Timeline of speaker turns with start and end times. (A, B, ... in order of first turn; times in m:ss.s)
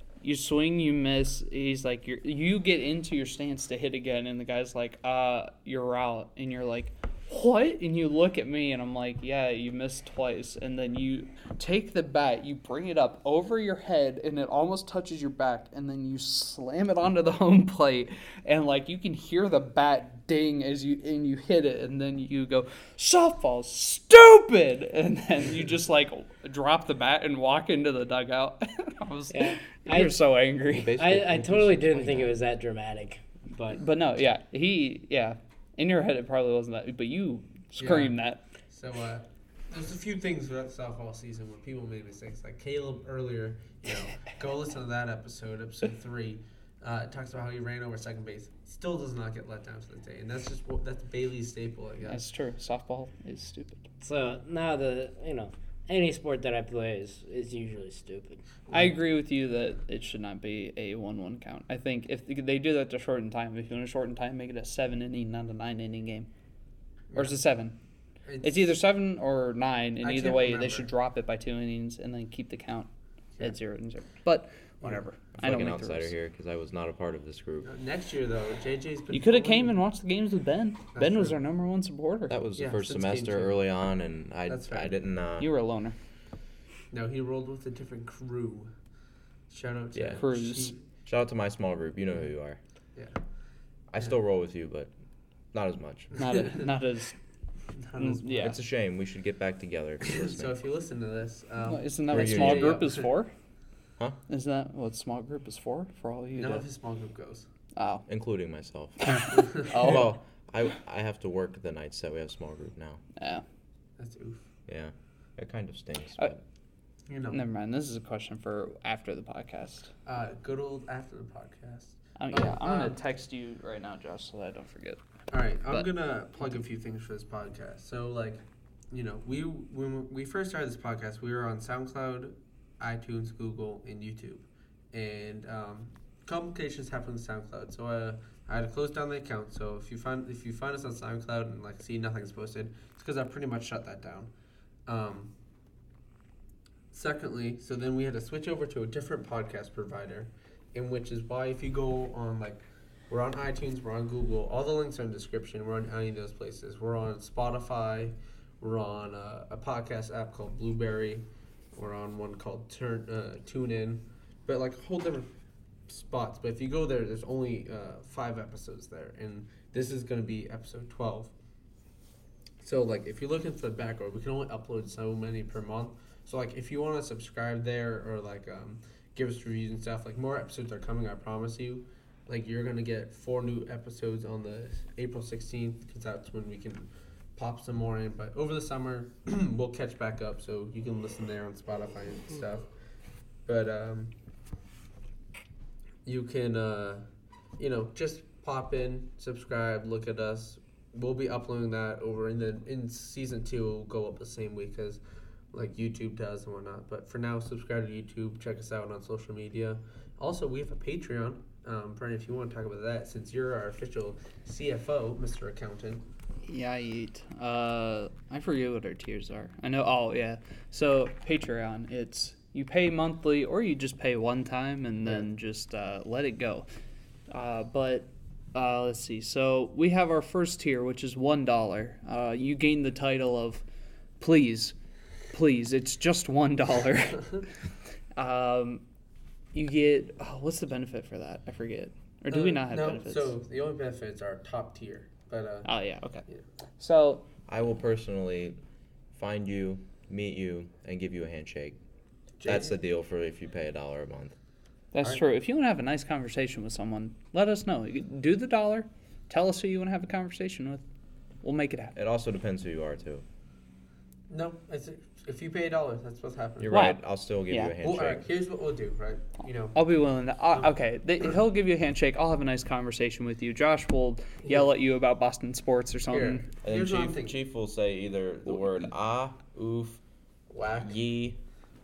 0:00.2-0:31.0 A
0:29.3-0:30.2 B
0:30.7-0:32.3 C
0:31.0-0:33.8 B
0:33.7-0:38.4 A
0:37.8-0:38.2 D
0:38.7-0:52.2 D
0:52.0-0:53.8 A
0:54.0-0:58.5 B
0:58.7-0:59.0 D
0:58.7-1:06.3 A
1:07.1-1:07.7 A
1:08.3-1:08.8 D
1:08.4-1:12.9 A
1:10.0-1:10.9 D
1:13.4-1:16.1 A
1:15.3-1:17.7 C
1:17.6-1:19.8 D
1:19.1-1:22.3 A
1:20.9-1:21.3 D
1:22.3-1:25.5 C
1:22.6-1:23.6 D
1:24.5-1:25.0 D
1:25.4-1:26.0 A
1:26.9-1:28.7 D
1:29.5-1:30.8 D
1:30.0-1:30.2 C
1:30.1-1:30.7 A
1:31.0-1:32.6 C
1:33.9-1:34.9 C
1:35.5-1:36.2 C
1:36.2-1:37.2 A
1:36.4-1:36.6 D
1:37.8-1:38.2 D
1:38.0-1:38.6 A
1:38.3-1:40.5 C
1:40.0-1:43.1 D
1:41.6-1:43.3 A
1:42.1-1:42.8 C
1:44.3-1:46.6 A
1:46.4-1:47.4 D
1:47.8-1:48.1 A
1:48.1-1:53.0 C
1:49.0-1:50.1 A
1:49.3-1:50.0 D
1:53.2-1:53.4 A
1:54.0-1:54.4 D
1:54.7-1:56.4 C
1:57.1-1:57.4 D
1:57.3-1:59.9 A
2:00.0-2:03.0 D
2:02.2-2:05.0 A
2:05.3-2:24.3 D
2:24.9-2:25.3 D
2:26.9-2:45.3 D
2:45.9-2:51.3 D
2:52.6-3:12.7 D
3:13.4-3:14.1 D
3:16.0-3:17.0 D
3:17.6-3:25.0 D
3:25.5-3:36.0 D
3:36.5-3:46.7 A
3:47.3-3:53.6 A
3:54.2-3:54.7 A
3:55.3-3:57.5 A
3:58.1-3:58.8 A
3:59.5-4:03.3 A
4:02.3-4:05.7 D
4:05.6-4:06.2 A
4:06.8-4:07.2 A
4:07.5-4:08.6 C
4:09.1-4:11.8 C
4:12.4-4:12.8 D
4:12.4-4:14.3 C
4:14.9-4:20.8 A
4:21.4-4:22.0 A
4:22.0-4:23.2 C
4:24.3-4:26.8 D
4:26.6-4:28.2 C
4:26.7-4:27.7 A
4:27.8-4:29.8 D
4:29.7-4:36.5 A
4:34.4-4:34.7 D
4:36.1-4:37.3 D
4:36.6-4:40.0 C
4:40.5-4:41.0 D
4:40.8-4:41.4 C